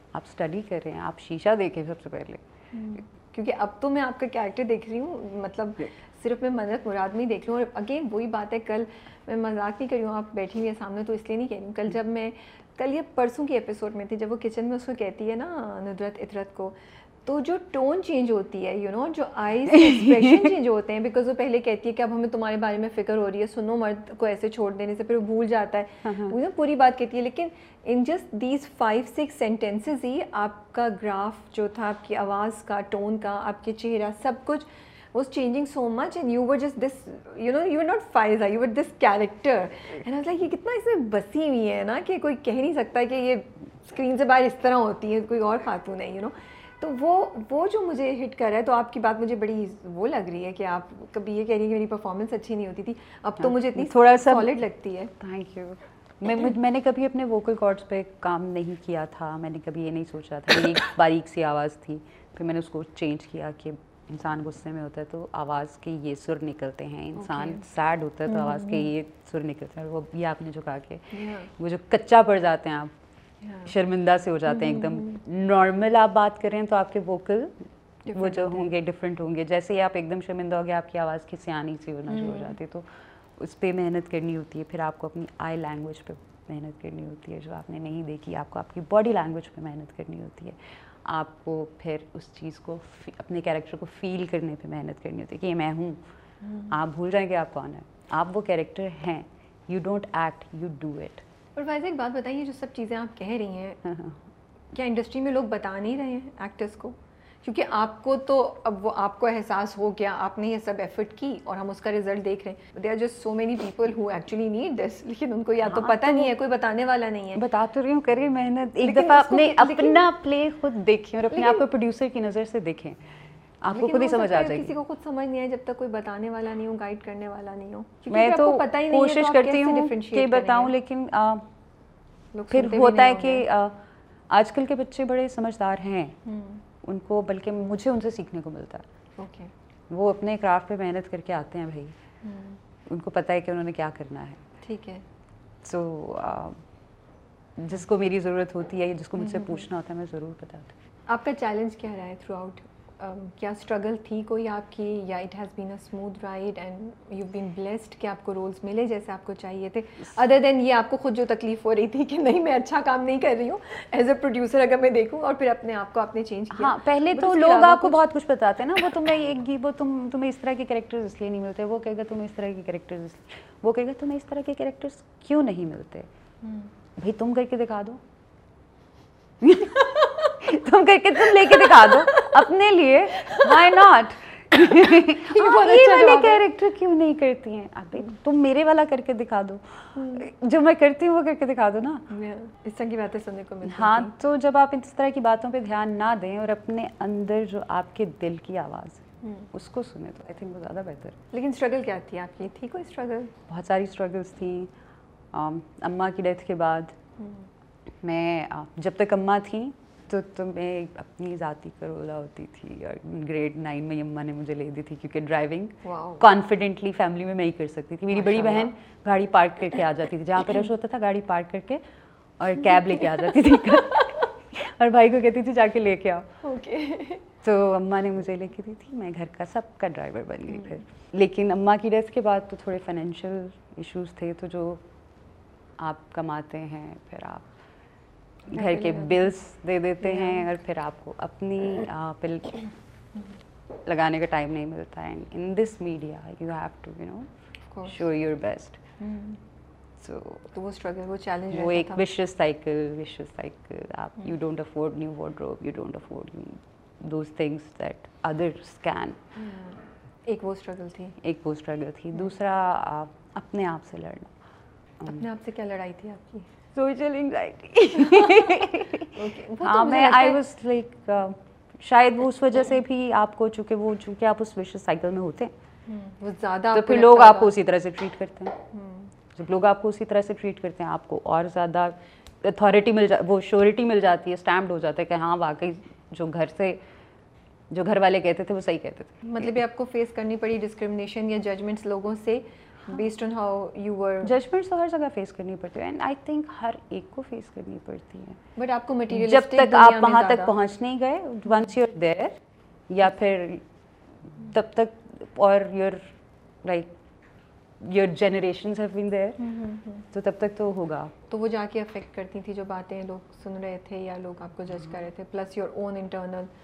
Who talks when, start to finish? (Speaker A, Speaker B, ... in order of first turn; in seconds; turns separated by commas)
Speaker A: 0.1-2.4, Speaker B: 2.7-55.1, Speaker A: 19.7-20.5, Speaker A: 26.1-26.4, Speaker A: 53.4-54.5, Speaker A: 55.2-72.9, Speaker B: 67.2-67.7, Speaker B: 68.3-68.9, Speaker B: 71.1-71.5, Speaker B: 73.4-73.7, Speaker A: 73.6-96.0, Speaker B: 74.5-75.2, Speaker B: 78.1-78.7, Speaker B: 82.1-82.6, Speaker B: 96.4-96.8, Speaker A: 96.7-101.2, Speaker B: 101.6-103.8, Speaker A: 103.8-104.2, Speaker B: 104.7-117.4, Speaker A: 115.6-116.3, Speaker A: 117.3-123.0, Speaker B: 118.8-120.0, Speaker B: 121.3-121.6, Speaker A: 123.6-124.7, Speaker B: 123.7-130.7, Speaker A: 128.1-131.5, Speaker B: 132.3-133.4, Speaker A: 132.5-136.2, Speaker B: 136.2-136.7, Speaker A: 136.8-138.8, Speaker B: 139.2-139.5, Speaker A: 139.9-142.0, Speaker B: 142.2-142.6, Speaker A: 142.9-144.4, Speaker B: 144.6-145.0, Speaker A: 145.6-146.6, Speaker A: 147.6-150.7, Speaker B: 149.2-149.7, Speaker B: 151.1-168.0, Speaker A: 166.5-176.1, Speaker B: 176.4-176.7, Speaker A: 177.0-178.0, Speaker A: 179.4-192.1, Speaker B: 179.8-180.4, Speaker B: 181.2-182.3, Speaker B: 183.1-183.8, Speaker B: 184.6-186.5, Speaker B: 189.9-190.3, Speaker B: 192.1-194.1, Speaker A: 193.7-201.2, Speaker B: 199.2-199.5, Speaker B: 201.3-203.3, Speaker A: 203.5-204.7, Speaker A: 205.3-207.0, Speaker B: 207.2-207.5, Speaker A: 208.0-221.8, Speaker B: 215.8-216.3, Speaker B: 218.1-218.7, Speaker A: 222.4-226.3, Speaker B: 222.9-224.3, Speaker B: 226.4-227.3, Speaker A: 227.4-234.8, Speaker B: 230.5-230.8, Speaker A: 235.8-237.5, Speaker A: 238.5-242.7, Speaker B: 238.5-239.3, Speaker B: 240.0-240.5, Speaker A: 243.8-247.3, Speaker B: 247.7-248.0, Speaker A: 247.9-248.8, Speaker B: 249.0-249.4, Speaker A: 250.0-250.5, Speaker B: 250.5-252.0, Speaker A: 251.5-259.2, Speaker B: 259.4-261.2, Speaker A: 261.2-264.3, Speaker B: 265.1-266.5, Speaker A: 266.7-275.5, Speaker B: 269.1-270.4, Speaker B: 275.9-277.6, Speaker A: 276.7-278.6, Speaker B: 278.7-279.1, Speaker A: 279.3-286.8, Speaker A: 287.7-289.5, Speaker B: 289.2-294.4, Speaker A: 294.2-298.4, Speaker B: 298.6-300.6, Speaker A: 299.1-302.4, Speaker A: 302.9-303.6, Speaker A: 304.4-306.9, Speaker A: 307.8-309.4, Speaker B: 309.4-310.1, Speaker A: 310.1-311.1, Speaker B: 311.3-316.5